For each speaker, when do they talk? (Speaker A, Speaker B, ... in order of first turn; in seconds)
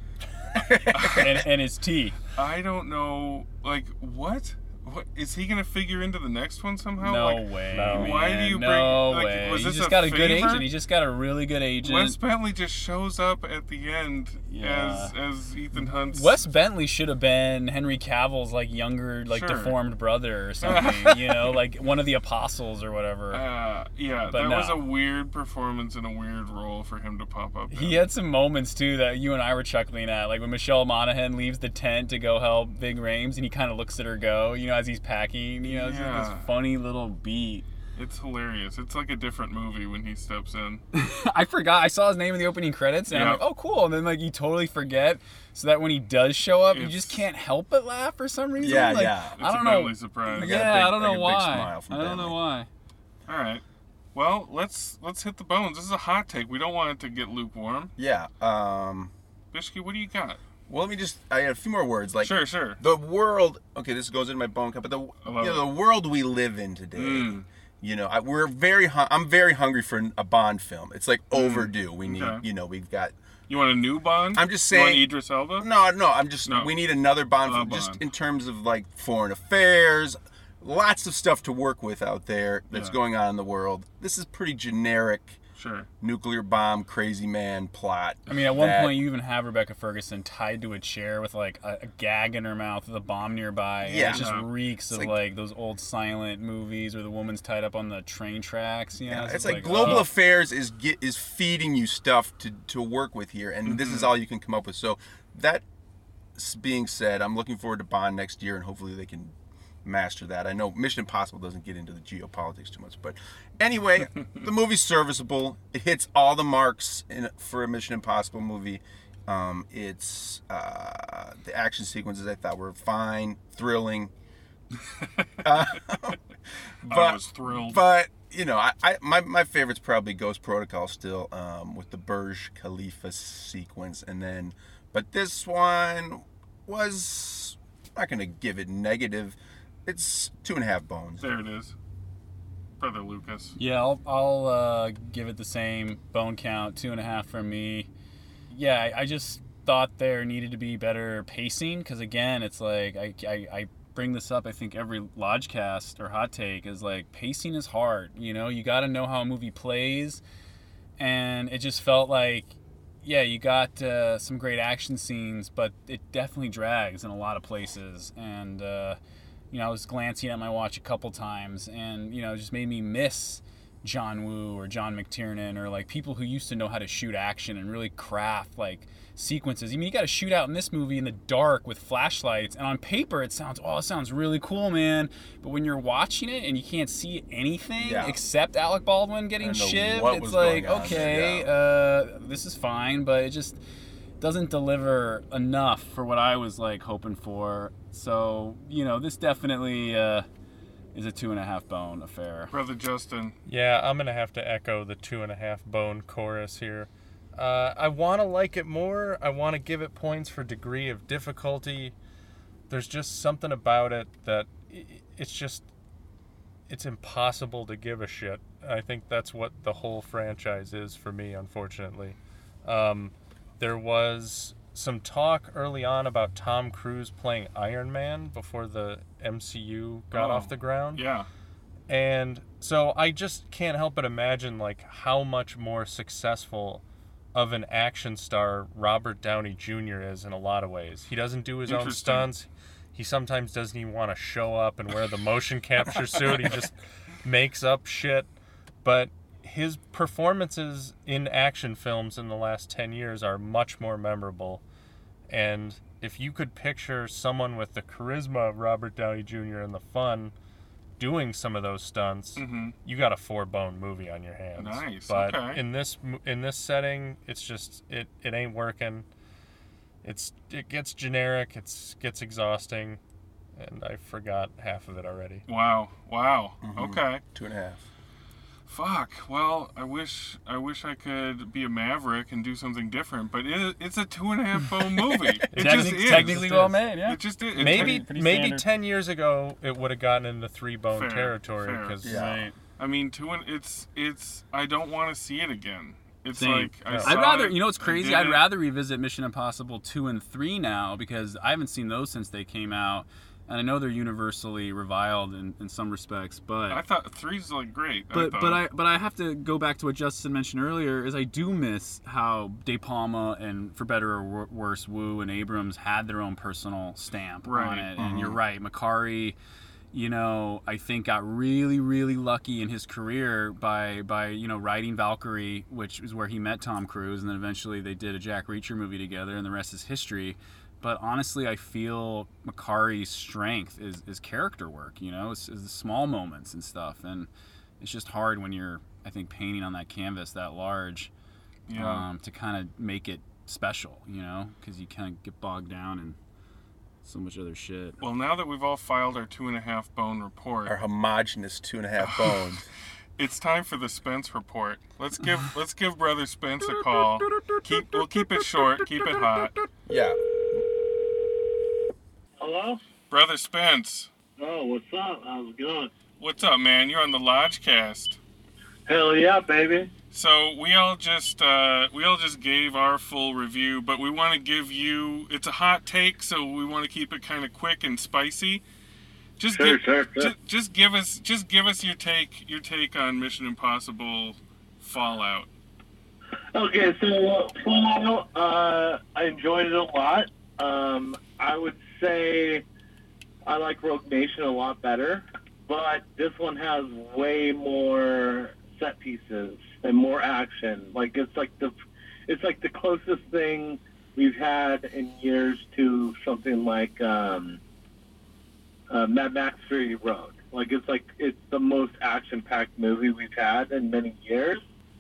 Speaker A: 0.5-1.3, 48.6-49.4, 50.3-52.4, 58.0-59.1, 60.7-73.2, 74.3-85.4, 86.0-89.0, 93.8-94.3, 94.9-95.2, 99.1-105.6, 106.3-124.1, 125.4-126.2, 126.8-141.3, 187.8-188.2, 189.4-191.5, 276.6-277.9, 285.1-285.4, 292.0-292.4, 318.0-318.4, 350.6-352.7, 359.9-360.6
Speaker B: 0.9-1.4, 2.4-10.7, 11.8-16.4, 19.3-19.8, 20.6-21.6, 23.3-28.1, 35.6-36.5, 38.0-40.8, 43.1-43.4, 46.7-47.2, 49.4-50.6, 53.3-53.6, 54.1-57.9, 59.5-60.4, 62.2-62.8, 65.2-65.7, 67.0-67.5, 71.3-72.4, 73.5-75.7, 76.5-76.7, 77.5-78.0, 85.6-85.9, 94.1-94.5, 99.8-100.1, 103.7-104.1, 125.0-125.3, 126.8-127.8, 141.2-141.7, 142.8-143.6, 202.5-203.4, 230.1-231.3, 241.7-242.3, 262.4-262.8, 264.6-265.6, 275.5-277.2, 278.7-288.0, 290.9-291.9, 292.8-298.5, 306.7-308.6, 317.4-317.9, 341.7-342.1, 348.0-350.8, 352.0-352.4, 353.2-359.6, 363.1-364.1, 366.2-368.2, 370.1-378.6, 379.4-385.5
Speaker C: 1.1-2.2, 7.0-12.2, 14.5-15.2, 15.8-23.4, 24.3-24.9, 27.7-37.6, 40.9-52.7, 88.3-100.1, 143.6-147.9, 148.5-160.2, 161.0-169.0, 169.5-193.6, 194.2-200.3, 200.9-202.5, 285.5-288.7, 292.1-292.6, 296.4-306.8, 308.1-319.4, 319.9-337.3, 337.8-341.1, 341.7-346.2, 347.0-348.0
Speaker D: 7.7-8.3, 203.5-211.9, 212.7-215.7, 216.7-231.1, 231.9-248.3, 248.8-254.6, 255.3-260.3, 261.0-269.1, 270.0-273.0, 273.6-275.4, 285.5-286.5, 287.6-292.3, 296.9-297.2
Speaker E: 362.4-362.8, 364.4-365.9, 368.9-369.9, 379.5-380.3, 386.5-392.6, 393.4-401.8, 402.3-407.6, 408.9-414.6